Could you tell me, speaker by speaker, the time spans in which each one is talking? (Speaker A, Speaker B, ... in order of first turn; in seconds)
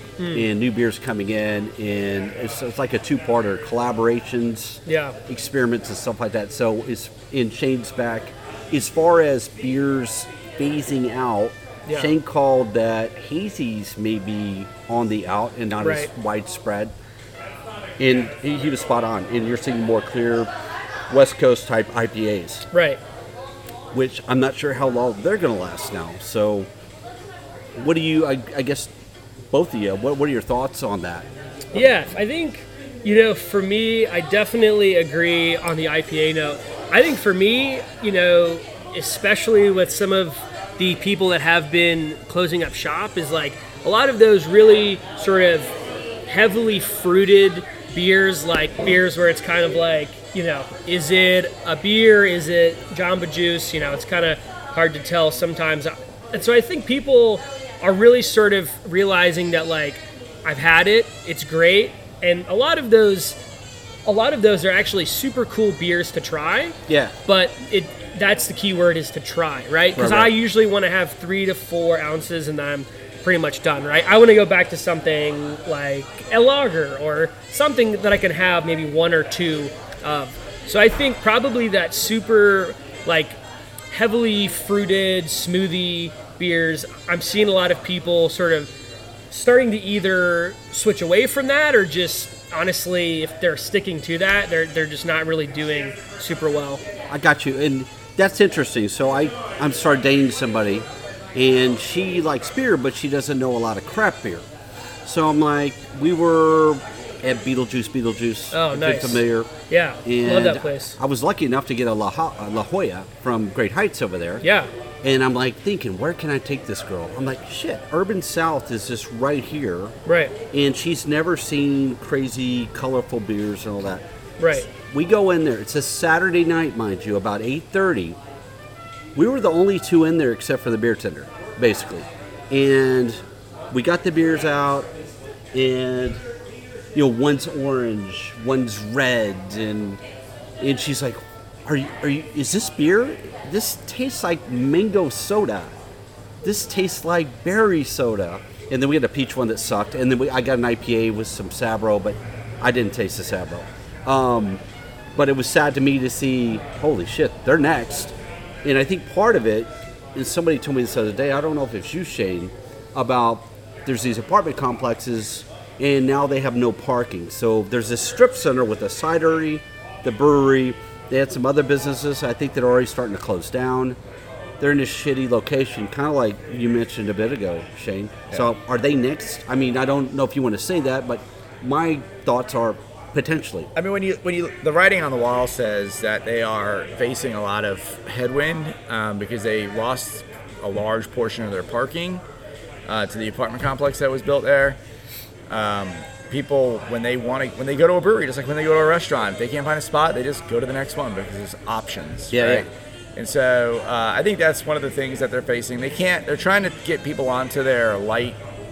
Speaker A: 0.2-0.5, 4.9-5.2, 11.9-12.1, 15.8-16.1, 22.7-23.0, 31.7-45.8, 46.3-63.4, 64.0-83.4, 83.9-88.7, 89.3-96.8, 108.5-111.0, 114.4-114.7, 120.1-120.3, 124.4-124.7
Speaker B: 0.3-16.9, 18.0-20.5, 21.1-22.6, 23.9-26.7, 27.8-28.9, 29.5-31.9, 66.9-67.1, 70.0-70.3, 97.1-104.5, 105.0-109.5, 110.0-114.4, 115.0-120.0, 120.5-128.2, 129.2-134.9, 135.5-136.2, 136.9-140.0, 140.6-145.8, 146.4-154.6, 155.2-174.0, 174.6-183.7, 202.3-202.7
Speaker C: 183.8-192.2, 192.9-194.8, 195.5-208.4